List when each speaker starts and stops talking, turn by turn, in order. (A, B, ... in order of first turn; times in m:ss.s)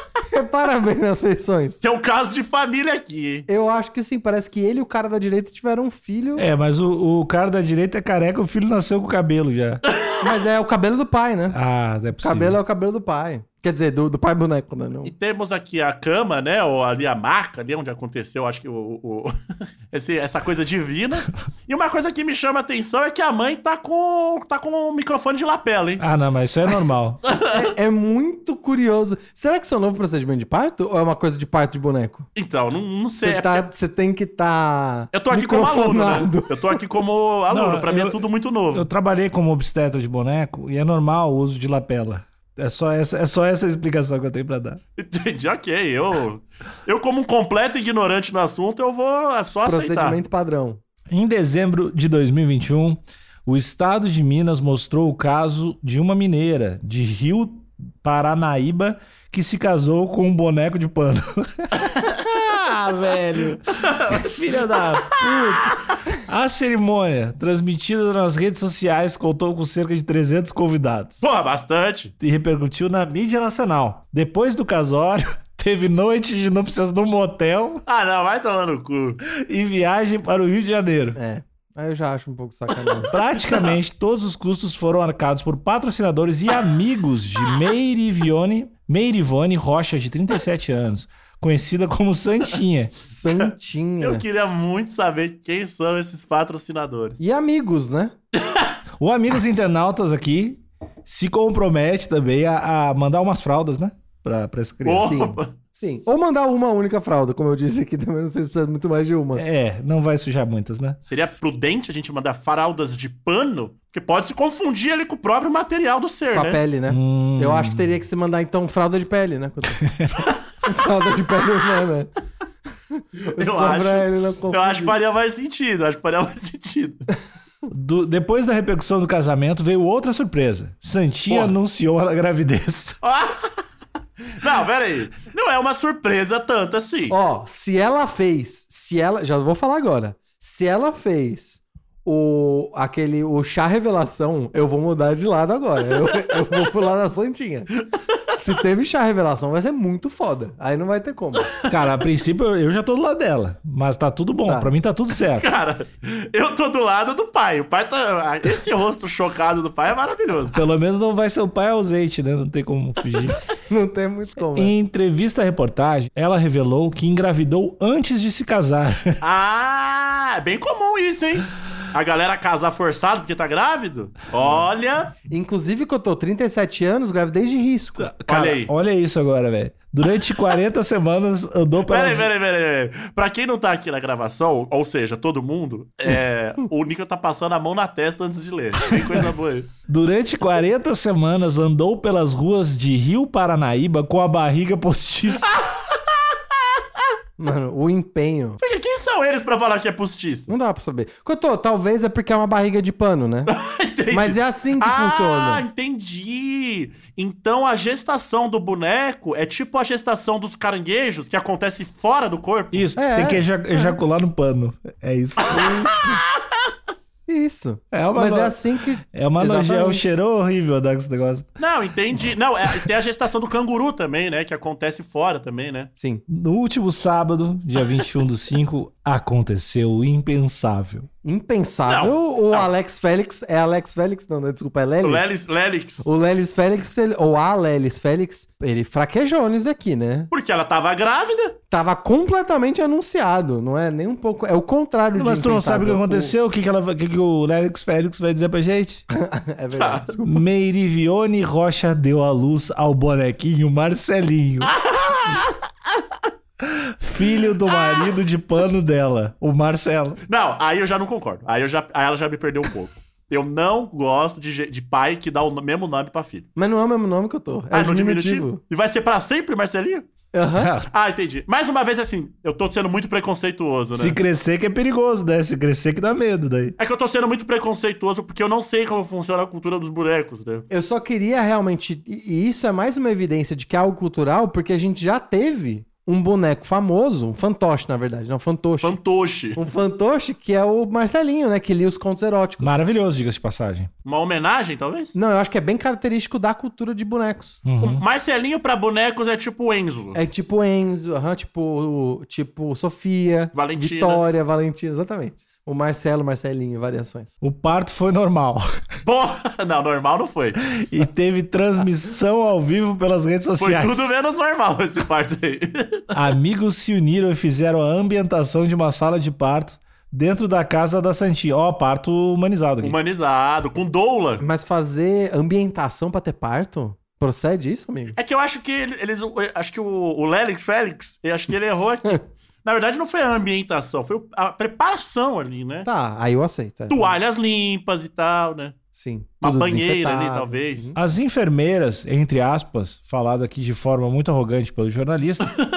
0:00.3-0:01.8 A
0:01.8-0:03.5 B
0:03.5-0:06.4 A
0:06.4-0:09.8 C
0:09.9-0:10.2 B
0:10.2-0:11.6 A
0:11.5-0:12.6 C
0:12.2-0:15.1 A
0:15.0-0:19.3 B
0:19.9-0:26.0 B
0:26.0-0:27.2 C
0:27.2-0:27.6 B
0:27.5-0:32.3 A
0:32.3-0:33.6 B
0:33.2-0:36.8 A
0:35.1-0:38.9 B
0:37.5-0:44.8 C
0:45.0-0:50.2 B
0:49.6-0:50.8 A
0:51.1-1:11.2 C
1:03.8-1:05.7 B
1:11.2-1:12.1 B
1:12.2-1:17.8 C
1:17.8-1:19.2 B
1:19.2-1:21.2 C
1:21.2-1:23.1 A
1:23.1-1:32.9 C
1:33.0-1:34.2 A
1:34.0-1:37.2 B
1:37.2-1:38.1 A
1:38.4-1:38.7 B
1:39.0-1:45.2 C
1:44.8-1:45.5 B
1:45.0-1:49.4 A
1:49.3-1:51.0 C
1:51.0-1:56.6 B
1:56.3-1:59.8 A
1:56.9-1:57.9 C
1:59.8-2:00.2 C
2:00.6-2:02.1 A
2:02.9-2:05.0 A
2:03.4-2:07.0 B
2:07.7-2:13.0 C
2:13.0-2:13.5 B
2:14.4-2:17.2 B
2:17.1-2:27.7 A
2:28.1-2:28.4 B
2:28.3-2:31.5 A
2:31.7-2:35.5 C
2:35.3-2:40.6 B
2:40.5-2:43.4 C
2:43.7-2:44.7 A
2:44.5-2:49.2 C
2:49.2-2:55.1 B
2:55.3-2:58.1 A
2:58.0-3:02.3 C
2:58.3-2:58.7 B
3:01.8-3:09.7 B
3:09.9-3:15.6 C
3:15.5-3:16.0 B
3:17.4-3:18.6 A
3:18.6-3:20.5 B
3:20.5-3:23.5 A
3:23.5-3:32.8 B
3:24.1-3:25.6 A
3:32.7-3:35.7 C
3:33.0-3:33.9 A
3:35.4-3:36.2 B
3:35.5-3:36.2 A
3:37.3-3:40.1 A
3:37.9-3:41.5 C
3:41.6-3:45.9 B
3:46.0-3:46.2 A
3:46.3-3:51.1 C
3:51.2-3:55.3 A
3:51.8-3:52.7 B
3:55.0-3:56.1 B
3:56.0-4:00.3 A
4:00.3-4:01.6 B
4:01.7-4:06.3 A
4:05.1-4:09.0 C
4:09.1-4:10.4 A
4:09.7-4:10.1 B
4:10.2-4:14.7 C
4:14.7-4:15.5 B
4:16.6-4:20.2 C
4:20.3-4:26.5 B
4:26.6-4:28.6 A
4:27.7-4:30.1 B
4:30.3-4:30.7 A
4:30.5-4:30.9 C
4:30.9-4:34.2 B
4:33.9-4:36.7 C
4:36.8-4:40.6 B
4:40.7-4:49.0 A
4:48.8-4:49.6 B
4:49.6-4:52.8 A
4:52.6-4:53.9 C
4:54.0-4:55.1 B
4:55.1-4:57.6 A
4:57.6-4:58.0 C
4:57.8-5:00.2 B
5:00.1-5:07.3 A
5:03.5-5:04.2 B
5:07.4-5:08.7 C
5:09.0-5:10.6 B
5:10.7-5:14.1 C
5:13.6-5:16.1 B
5:16.1-5:22.9 C
5:22.8-5:24.4 B
5:24.4-5:28.2 A
5:28.1-5:35.9 B
5:35.8-5:37.1 A
5:36.9-5:38.8 B
5:38.9-5:41.0 A
5:39.4-5:41.0 B
5:41.0-5:45.5 C